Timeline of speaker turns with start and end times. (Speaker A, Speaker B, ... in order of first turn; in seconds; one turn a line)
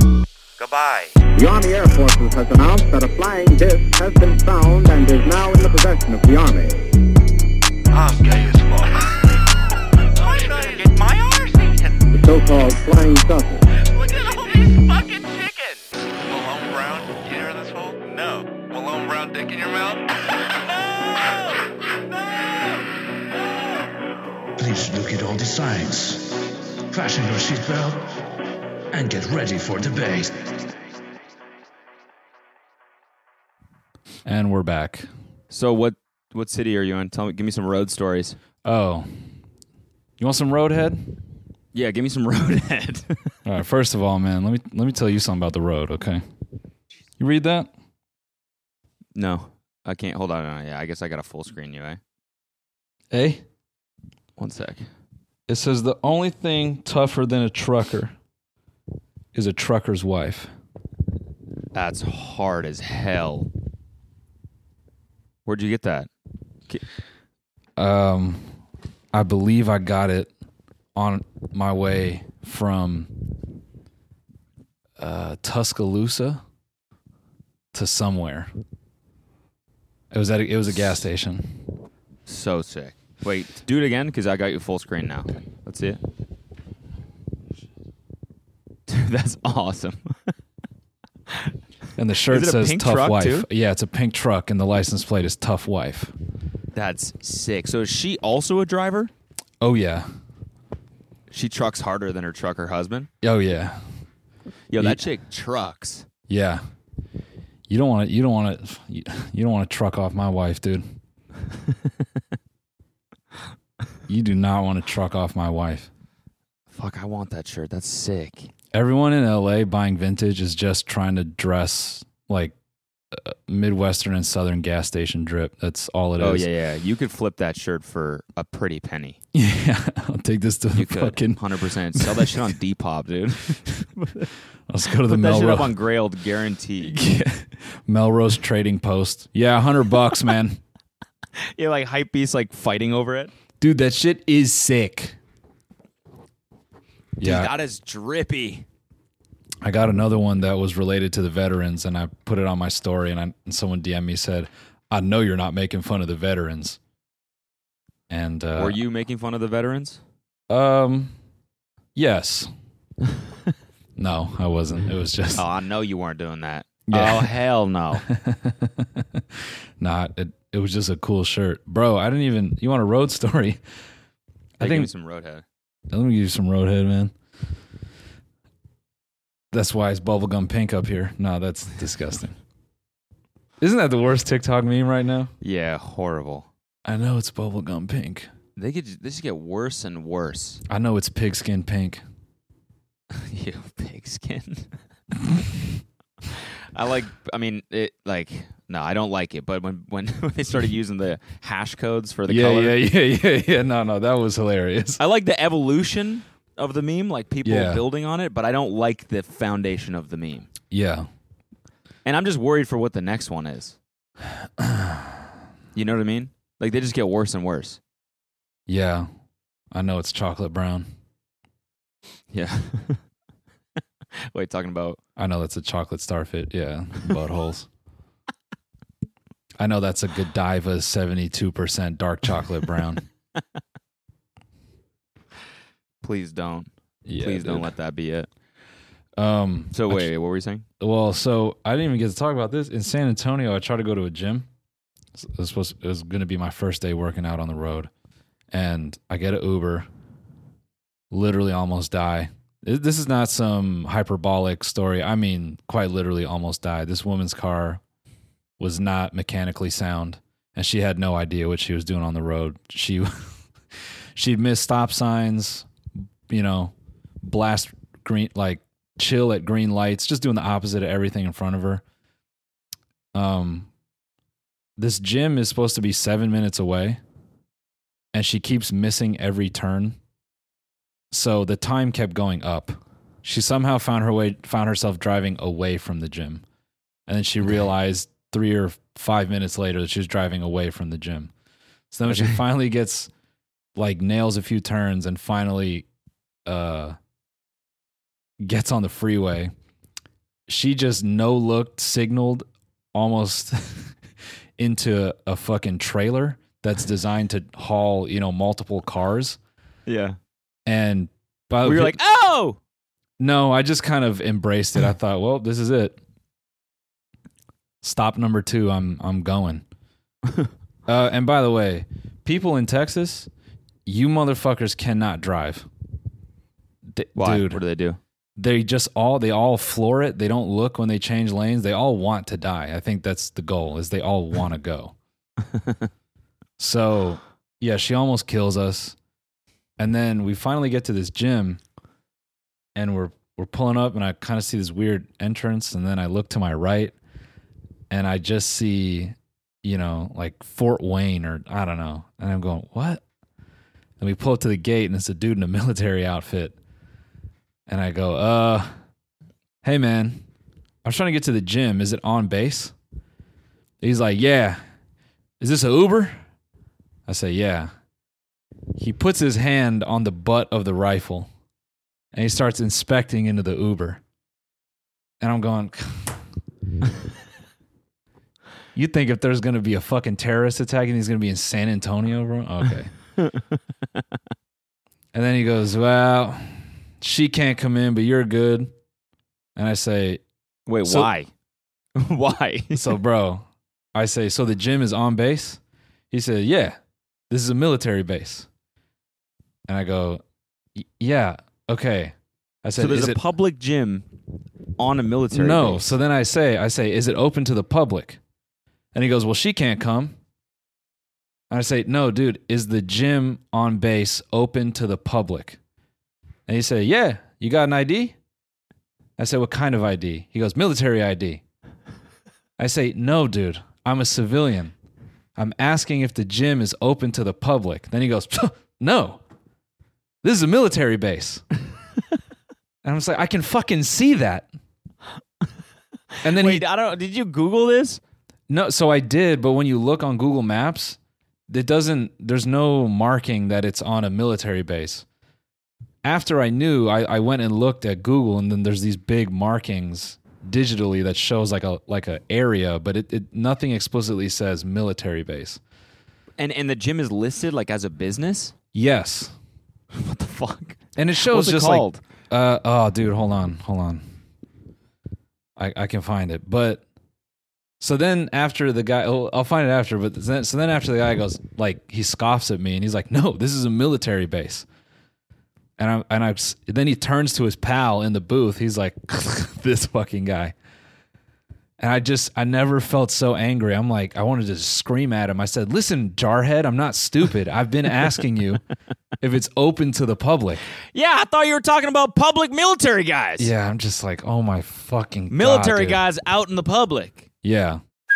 Speaker A: 0.6-1.2
Speaker B: 1.3-6.9
Speaker A: 7.9-9.4
Speaker A: 10.1-12.1
Speaker B: 12.1-13.6
Speaker A: 13.7-20.0
Speaker C: 24.6-28.2
Speaker C: 28.9-30.7
Speaker D: 34.2-35.1
Speaker E: 35.5-38.4
Speaker D: 38.6-39.1
Speaker D: 40.2-41.1
Speaker E: 41.7-43.3
Speaker D: 43.5-46.2
Speaker D: 47.2-47.7
Speaker E: 49.1-52.0
Speaker D: 53.1-53.4
Speaker E: 54.4-54.9
Speaker D: 55.5-58.1
Speaker D: 59.3-60.5
Speaker E: 61.7-63.5
Speaker E: 65.5-66.1
Speaker D: 67.8-68.5
Speaker D: 69.1-70.3
Speaker D: 70.9-73.1
Speaker D: 75.0-76.4
Speaker D: 77.7-78.5
Speaker D: 80.1-81.6
Speaker E: 82.3-86.0
Speaker E: 88.9-90.2
Speaker D: 92.0-96.1
Speaker E: 92.3-93.5
Speaker E: 96.7-99.1
Speaker D: 99.6-100.1
Speaker E: 101.3-103.1
Speaker D: 103.2-103.8
Speaker E: 104.7-106.1
Speaker D: 106.3-106.6
Speaker D: 107.7-110.8
Speaker D: 114.1-115.9
Speaker E: 116.7-118.5
Speaker D: 118.7-122.5
Speaker D: 123.1-126.5
Speaker E: 126.2-129.2
Speaker D: 129.3-131.4
Speaker E: 130.7-134.3
Speaker D: 131.9-132.4
Speaker D: 134.7-135.7
Speaker E: 135.0-137.0
Speaker D: 136.8-140.6
Speaker E: 141.4-143.3
Speaker D: 143.6-145.2
Speaker D: 147.2-147.5
Speaker E: 147.2-148.7
Speaker D: 149.6-156.8
Speaker D: 158.1-158.8
Speaker E: 158.6-160.0
Speaker D: 160.5-161.2
Speaker D: 161.9-162.5
Speaker D: 164.0-165.4
Speaker E: 165.3-168.1
Speaker D: 166.9-167.3
Speaker D: 168.1-173.6
Speaker D: 174.6-174.9
Speaker E: 174.6-175.4
Speaker D: 175.9-177.1
Speaker D: 179.5-182.3
Speaker D: 183.6-185.3
Speaker E: 185.4-186.5
Speaker D: 186.8-188.3
Speaker E: 188.6-190.6
Speaker D: 190.7-192.0
Speaker E: 193.1-194.7
Speaker E: 196.3-202.8
Speaker D: 202.3-205.0
Speaker E: 205.0-210.5
Speaker D: 207.4-207.8
Speaker D: 210.7-211.1
Speaker E: 212.0-213.8
Speaker D: 214.6-215.2
Speaker E: 215.7-217.8
Speaker D: 218.7-219.1
Speaker D: 219.7-220.9
Speaker E: 222.3-223.0
Speaker E: 224.3-225.0
Speaker D: 225.2-227.7
Speaker D: 229.6-233.0
Speaker E: 236.0-238.3
Speaker D: 237.1-237.7
Speaker D: 239.2-240.1
Speaker E: 239.7-240.6
Speaker D: 240.8-244.5
Speaker D: 245.2-247.9
Speaker D: 248.5-249.9
Speaker D: 251.1-257.8
Speaker D: 258.6-263.3
Speaker D: 264.1-265.7
Speaker D: 266.3-271.8
Speaker D: 273.1-273.7
Speaker D: 274.8-277.0
Speaker D: 278.1-280.0
Speaker D: 281.1-286.4
Speaker D: 287.1-291.3
Speaker D: 291.9-293.1
Speaker E: 292.1-292.4
Speaker D: 293.8-295.9
Speaker D: 296.4-297.0
Speaker D: 298.4-299.5
Speaker D: 300.5-303.9
Speaker D: 304.6-309.4
Speaker E: 309.9-310.2
Speaker D: 310.6-312.0
Speaker E: 311.6-312.6
Speaker D: 313.2-316.0
Speaker D: 317.8-319.6
Speaker D: 320.9-323.3
Speaker D: 323.9-325.7
Speaker D: 326.9-327.6
Speaker E: 327.1-328.0
Speaker D: 328.4-334.9
Speaker E: 335.6-335.8
Speaker D: 336.6-338.9
Speaker D: 339.8-341.6
Speaker D: 342.7-346.9
Speaker D: 347.9-353.0
Speaker D: 354.0-356.6
Speaker D: 357.7-358.7
Speaker D: 359.6-360.2
Speaker D: 360.8-362.7
Speaker D: 363.8-364.6
Speaker D: 365.4-366.2
Speaker D: 367.1-367.7
Speaker D: 368.8-371.3
Speaker D: 372.1-374.0
Speaker D: 375.2-376.2
Speaker D: 378.7-382.9
Speaker D: 385.1-388.7
Speaker D: 389.6-390.2
Speaker E: 390.7-391.3
Speaker D: 390.8-391.1
Speaker E: 392.0-392.9
Speaker D: 392.7-395.6
Speaker D: 396.1-396.8
Speaker D: 397.3-398.5
Speaker D: 399.7-400.2
Speaker D: 400.8-403.2
Speaker E: 402.8-404.1
Speaker E: 404.8-405.9
Speaker D: 405.3-408.2
Speaker D: 408.9-410.1
Speaker D: 411.5-415.6
Speaker D: 416.5-418.1
Speaker D: 419.2-421.4
Speaker D: 422.6-424.7
Speaker D: 425.4-429.2
Speaker D: 430.2-431.4
Speaker D: 432.8-434.5
Speaker D: 436.2-436.6
Speaker E: 436.2-438.0
Speaker D: 438.5-441.0
Speaker D: 441.5-445.0
Speaker D: 446.0-455.6
Speaker E: 456.4-458.5
Speaker D: 458.7-459.3
Speaker E: 459.9-462.0
Speaker D: 461.0-464.0
Speaker D: 465.6-466.8
Speaker D: 467.8-474.6
Speaker D: 475.8-480.5
Speaker D: 481.8-488.6
Speaker D: 489.2-490.6
Speaker E: 490.9-493.5
Speaker D: 493.4-496.0
Speaker E: 495.3-497.3
Speaker D: 497.4-497.8